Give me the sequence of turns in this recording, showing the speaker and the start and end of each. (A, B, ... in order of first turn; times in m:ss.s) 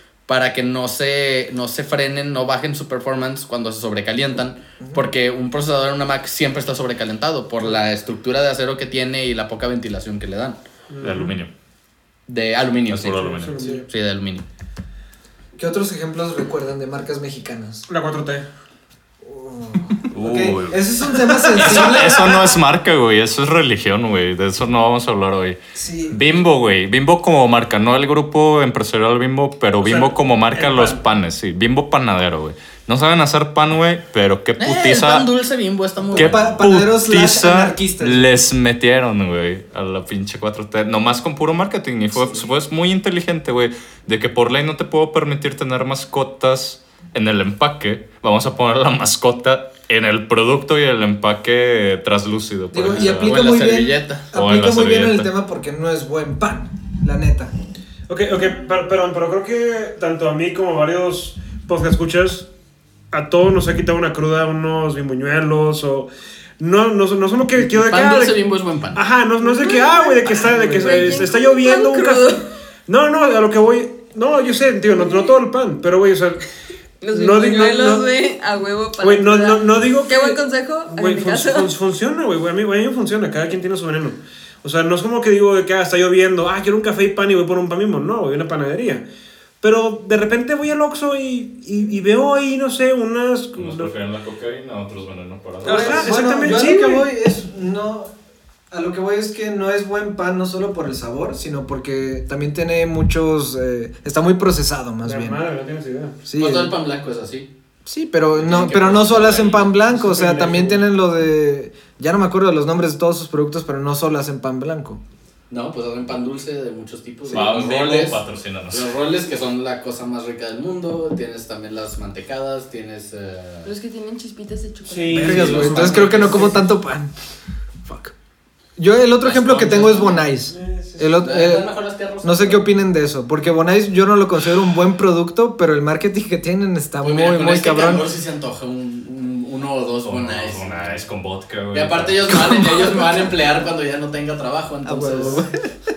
0:00.3-0:10.6 A
0:04.8-0:05.1 B
0:10.9-0:11.4 C
0:11.0-0:11.5 D
0:12.3-0:14.4 A
0:12.9-0:13.6 D
0:13.1-0:13.9 C
0:13.6-0:13.8 B
0:15.6-0:17.9 B
0:17.9-0:18.5 C
0:19.2-0:22.4 B
0:20.1-0:25.6 D
0:25.8-0:26.2 B
0:26.1-0:35.3 D
0:29.8-0:31.0 C
0:34.6-0:36.4 A
0:36.1-0:38.3 B
0:36.1-0:53.6 D
0:52.7-0:57.5 B
0:52.9-0:54.3 A
0:54.3-0:55.3 D
0:58.1-1:02.5 C
1:03.1-1:08.4 C
1:07.6-1:09.0 A
1:08.9-1:12.3 C
1:09.4-1:12.5 E
1:12.9-1:16.4 C
1:14.9-1:15.4 E
1:17.0-1:21.7 E
1:17.1-1:18.1 C
1:19.0-1:20.4 C
1:20.9-1:29.1 C
1:29.6-1:33.9 C
1:33.6-1:36.1 D
1:35.6-1:37.1 C
1:35.6-1:38.1 B
1:38.7-1:45.4 B
1:45.0-1:46.2 C
1:46.2-1:46.7 B
1:46.4-1:47.5 A
1:47.9-1:55.0 B
1:48.3-1:49.7 A
1:49.9-1:50.8 C
1:55.5-1:58.2 A
1:57.3-1:58.9 D
1:58.7-2:03.7 A
2:03.6-2:05.7 E
2:04.8-2:06.6 C
2:05.1-2:07.1 B
2:05.1-2:06.6 A
2:07.8-2:08.1 B
2:08.8-2:18.0 B
2:09.2-2:10.3 A
2:10.5-2:11.2 C
2:11.2-2:12.7 A
2:17.0-2:21.0 A
2:20.0-2:22.6 D
2:21.7-2:25.4 A
2:24.8-2:25.6 B